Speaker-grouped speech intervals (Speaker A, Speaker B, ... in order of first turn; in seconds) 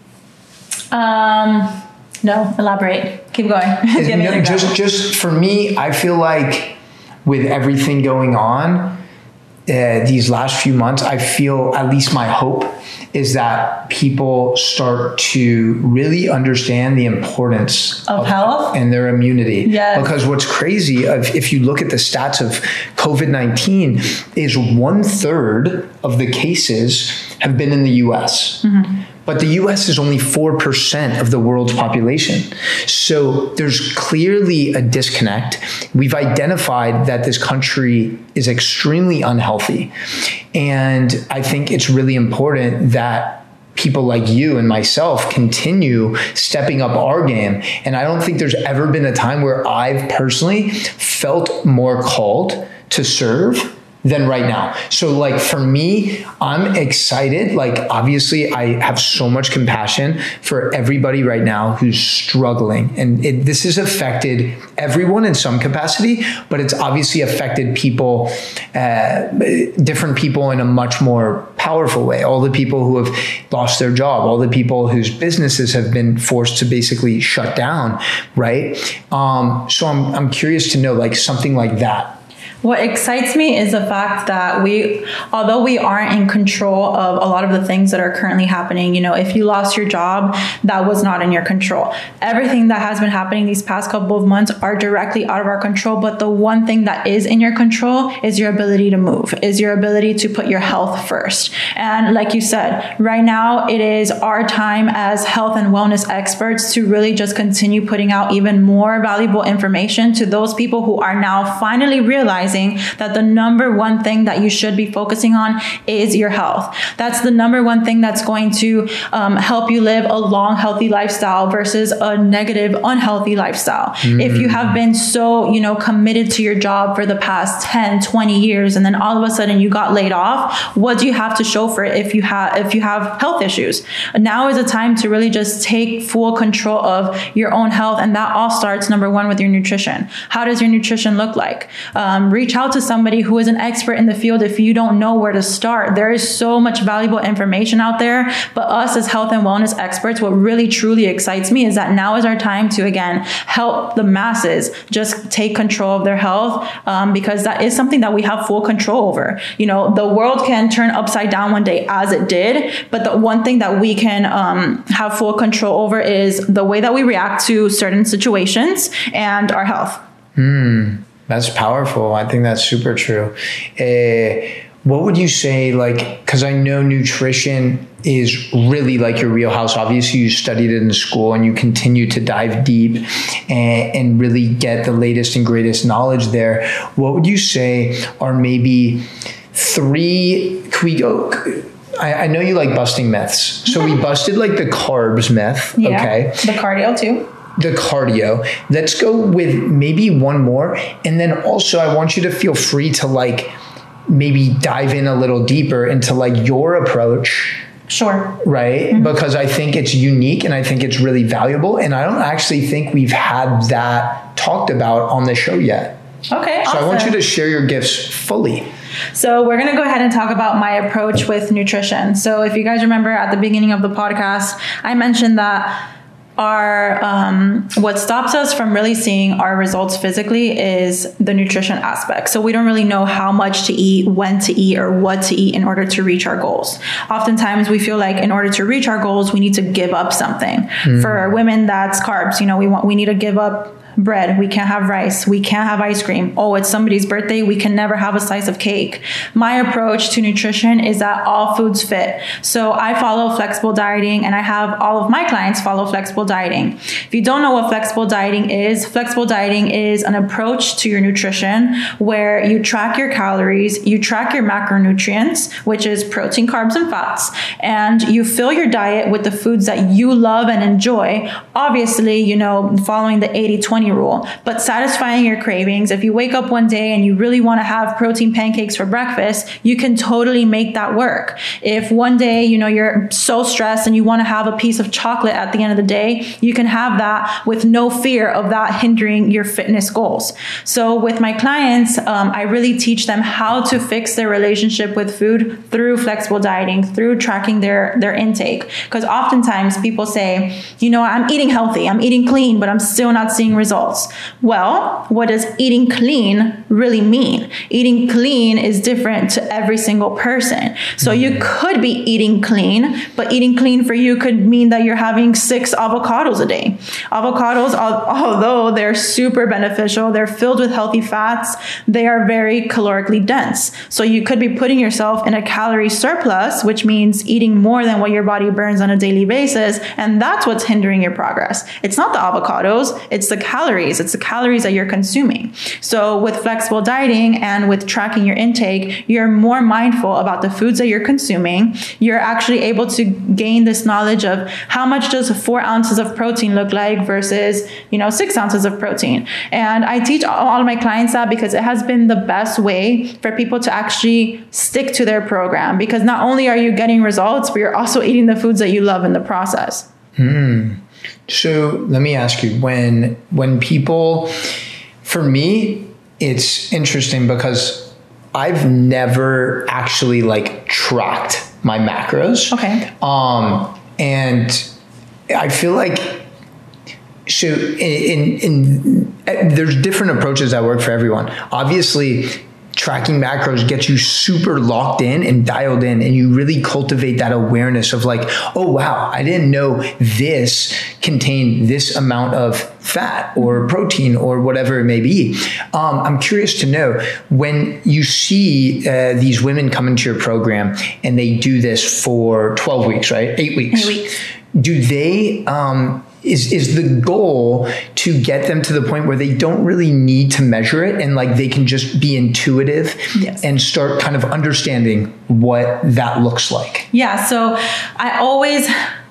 Speaker A: 0.9-4.7, 18.1-18.8, 19.6-20.1, 28.6-28.9, 82.6-170.0, 195.8-197.3, 207.9-208.4, 216.3-217.2, 219.1-225.8, 226.4-359.9, 372.5-372.9, 403.7-404.2, 413.1-413.4, 416.9-418.7
Speaker B: 3.9-9.0, 9.7-28.7, 29.2-39.9, 40.5-82.2, 124.0-124.8, 170.4-196.5, 197.6-203.6, 204.1-207.7, 208.4-216.0, 216.7-218.7, 240.8-241.2, 311.0-311.4, 360.2-364.4, 365.0-374.7, 375.3-376.3, 377.3-404.0, 404.5-416.9